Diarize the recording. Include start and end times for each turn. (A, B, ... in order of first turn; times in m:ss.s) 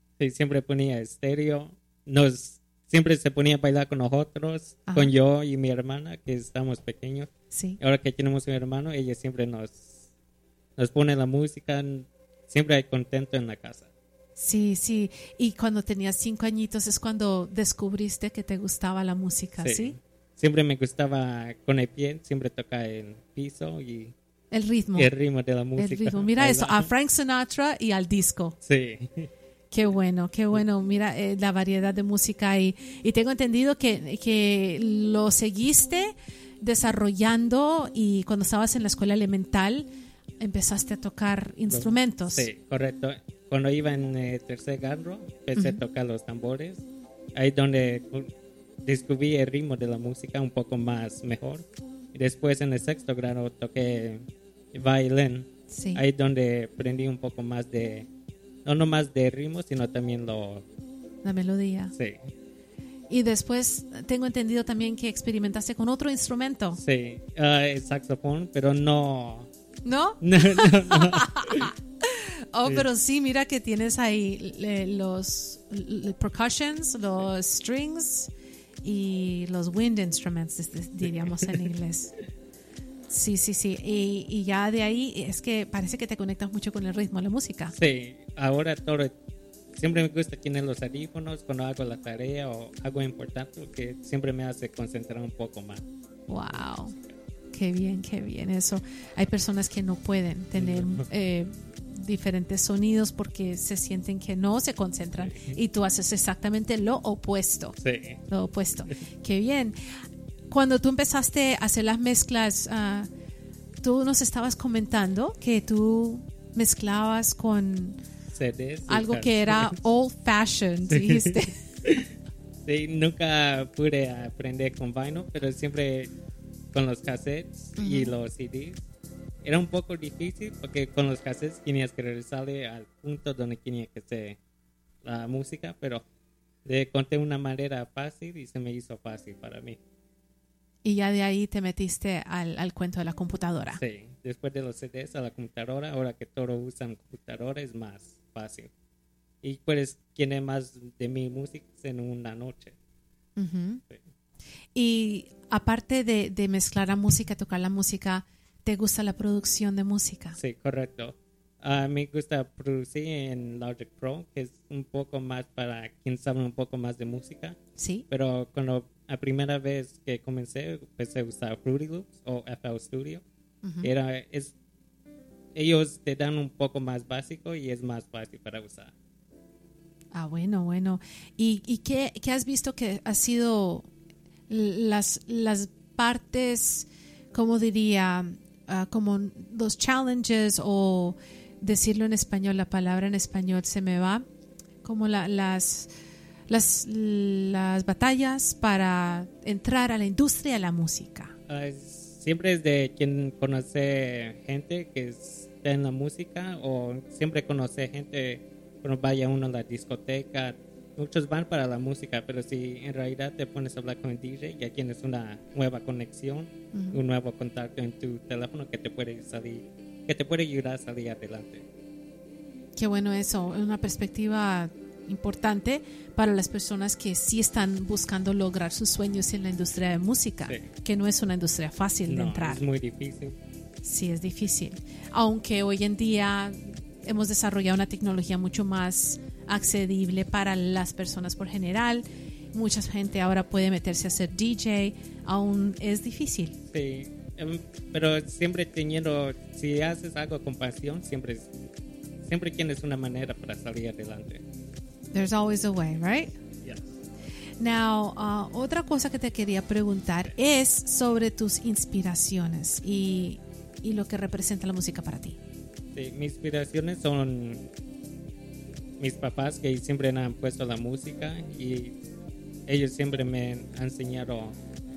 0:00.2-0:09.8 A
0:07.5-0:07.8 B
0:10.8-0:13.9 A
0:14.4-0:20.0 B
0:19.6-0:24.1 A
0:24.5-0:25.1 B
0:25.0-0:26.9 A
0:25.8-0:28.5 B
0:28.6-0:29.3 A
0:29.7-0:39.9 B
0:40.4-0:42.5 B
0:41.7-0:46.8 A
0:47.3-0:48.3 A
0:48.8-0:58.1 A
0:55.7-0:56.0 B
0:58.6-1:00.6 A
1:01.2-1:01.9 B
1:03.1-1:06.8 B
1:06.8-1:09.5 A
1:09.8-1:18.3 B
1:10.2-1:11.7 A
1:18.8-1:22.1 B
1:21.0-1:21.6 A
1:23.1-1:27.7 B
1:27.8-1:29.1 A
1:29.8-1:35.8 A
1:36.3-1:36.9 B
1:37.5-1:47.7 B
1:40.6-1:41.0 A
1:45.2-1:45.6 A
1:47.8-1:48.2 A
1:48.3-1:49.8 B
1:50.5-1:53.1 B
1:53.8-1:58.0 B
1:58.3-1:59.7 A
1:58.9-2:01.5 B
2:00.9-2:02.0 A
2:02.6-2:06.1 A
2:06.7-2:08.8 A
2:07.8-2:08.1 B
2:09.4-2:14.4 A
2:15.0-2:16.0 A
2:16.6-2:19.8 A
2:20.8-2:23.8 B
2:23.8-2:28.7 A
2:29.4-2:32.8 A
2:33.4-2:33.8 B
2:34.7-2:40.4 B
2:40.4-2:47.6 A
2:47.8-2:48.0 B
2:48.1-2:53.2 A
2:53.6-2:53.9 B
2:53.8-2:54.5 A
2:55.5-2:58.9 A
3:00.1-3:03.9 B
3:04.5-3:14.3 B
3:14.8-3:15.9 B
3:16.5-3:21.3 B
3:21.5-3:41.6 A
3:36.7-3:37.0 B
3:42.8-3:52.6 B
3:52.1-3:53.4 A
3:53.8-4:06.6 B
4:06.7-4:11.5 A
4:12.3-4:14.4 A
4:15.1-4:16.4 B
4:17.6-4:25.4 B
4:25.9-4:27.6 A
4:29.0-4:31.9 A
4:32.7-4:34.6 A